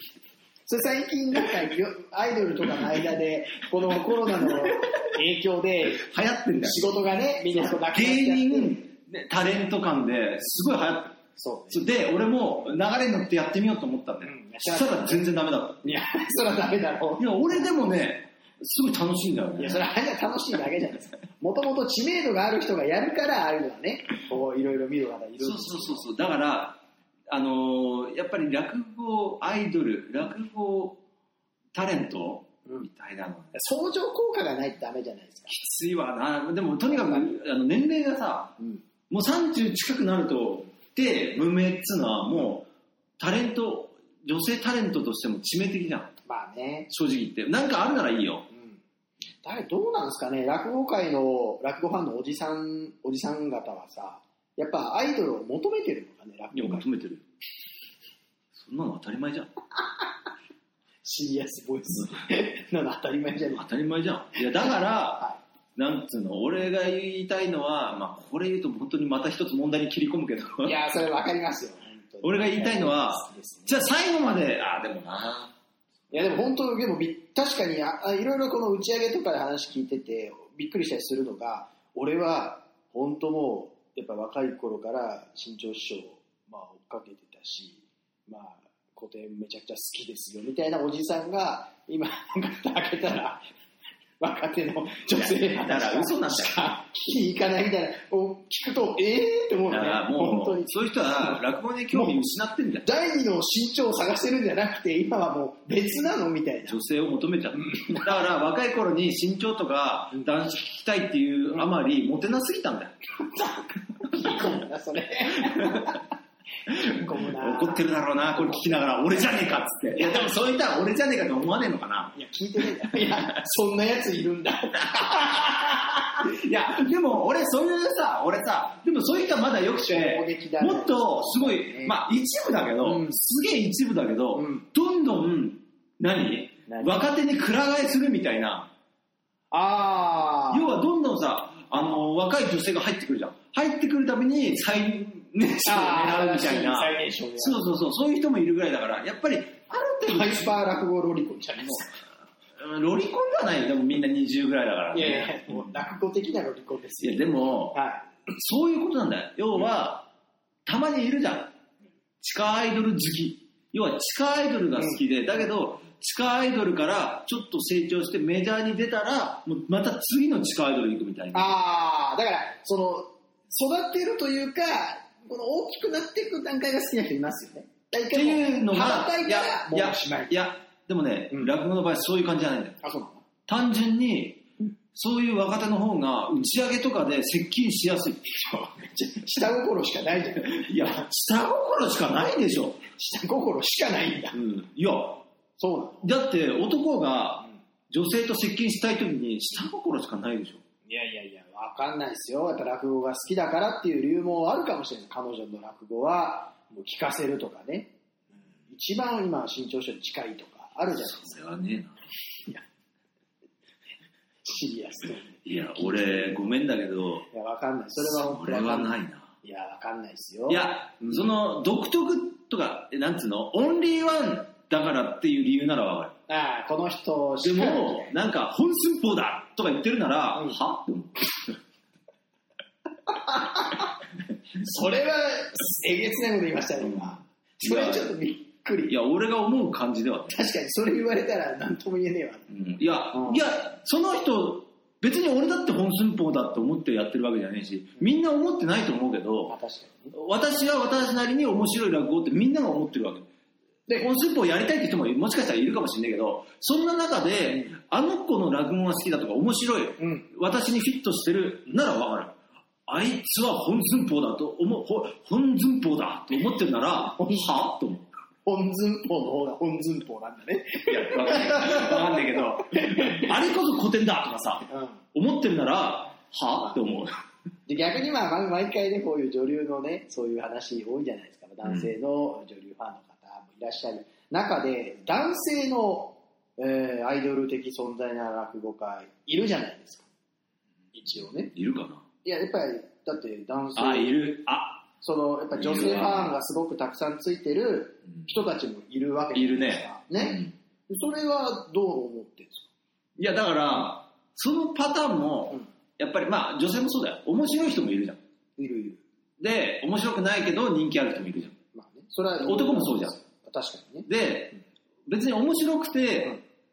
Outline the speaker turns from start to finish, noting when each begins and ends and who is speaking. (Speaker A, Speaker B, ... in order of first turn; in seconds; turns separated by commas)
Speaker A: 0.7-6.0, Speaker B: 4.5-4.8, Speaker B: 6.0-6.8, Speaker A: 6.6-8.8, Speaker B: 7.8-11.2, Speaker A: 11.4-11.8, Speaker B: 11.7-15.8, Speaker A: 14.2-15.2, Speaker A: 15.8-17.7, Speaker B: 17.2-19.8, Speaker A: 19.6-26.1, Speaker B: 25.4-31.0, Speaker B: 31.7-33.6, Speaker A: 33.5-35.5, Speaker B: 35.5-38.5, Speaker A: 36.9-37.3, Speaker B: 39.1-42.7, Speaker B: 43.2-46.2, Speaker A: 46.3-46.9, Speaker B: 46.9-48.5, Speaker A: 48.5-48.8, Speaker A: 49.4-56.9, Speaker B: 56.5-57.2, Speaker B: 58.5-59.5, Speaker A: 61.0-63.7, Speaker B: 63.5-65.2, Speaker B: 65.8-70.8, Speaker A: 70.6-73.8, Speaker B: 72.2-75.5, Speaker A: 76.1-93.4, Speaker A: 94.2-101.4, Speaker B: 95.1-96.6, Speaker B: 99.7-102.9, Speaker A: 101.9-102.2, Speaker A: 102.8-106.8, Speaker B: 106.7-112.9, Speaker A: 107.6-108.1, Speaker A: 113.3-116.1, Speaker B: 115.4-116.0, Speaker A: 116.7-117.8, Speaker B: 116.7-122.1, Speaker A: 118.4-118.8, Speaker A: 122.1-126.2, Speaker B: 126.2-138.7, Speaker A: 129.9-132.0, Speaker A: 132.8-133.2, Speaker A: 134.3-134.7, Speaker A: 136.7-136.9, Speaker A: 139.5-140.7, Speaker B: 140.5-150.5, Speaker A: 145.7-147.6, Speaker A: 150.1-152.0, Speaker B: 152.6-155.7, Speaker A: 154.9-158.1, Speaker B: 157.0-157.8, Speaker B: 158.3-160.1, Speaker B: 160.7-161.6, Speaker B: 162.2-171.5, Speaker A: 171.3-180.3, Speaker B: 178.1-182.8, Speaker A: 182.8-183.2, Speaker B: 183.5-188.2, Speaker A: 188.3-191.0, Speaker B: 190.4-192.8, Speaker A: 192.9-194.6, Speaker B: 194.4-195.2, Speaker A: 195.6-196.1, Speaker B: 196.0-200.6, Speaker A: 200.9-207.9, Speaker A: 208.7-211.4, Speaker B: 210.9-211.9, Speaker A: 214.4-216.5, Speaker B: 215.4-217.3, Speaker A: 217.3-221.2, Speaker B: 218.0-219.3, Speaker B: 220.5-226.1, Speaker A: 226.3-228.1, Speaker B: 227.4-231.6, Speaker A: 233.1-233.9, Speaker A: 234.6-238.9, Speaker B: 236.8-238.1, Speaker B: 238.9-240.4, Speaker A: 240.3-242.5, Speaker B: 242.5-249.5, Speaker A: 243.1-243.4, Speaker A: 249.5-250.2, Speaker B: 250.1-253.3, Speaker B: 253.9-268.1, Speaker A: 260.0-260.3, Speaker A: 267.2-267.5, Speaker A: 268.4-273.4, Speaker B: 270.9-277.1, Speaker A: 274.7-275.0, Speaker A: 277.7-290.1, Speaker B: 281.6-281.9, Speaker A: 290.9-291.5, Speaker B: 291.5-292.1, Speaker A: 292.2-294.2, Speaker B: 293.8-294.9, Speaker A: 295.0-302.7, Speaker B: 295.6-296.3, Speaker B: 299.3-300.5, Speaker B: 303.2-308.2, Speaker A: 308.6-309.0, Speaker B: 309.4-311.6, Speaker A: 311.7-314.1, Speaker B: 312.4-313.2, Speaker B: 314.1-316.4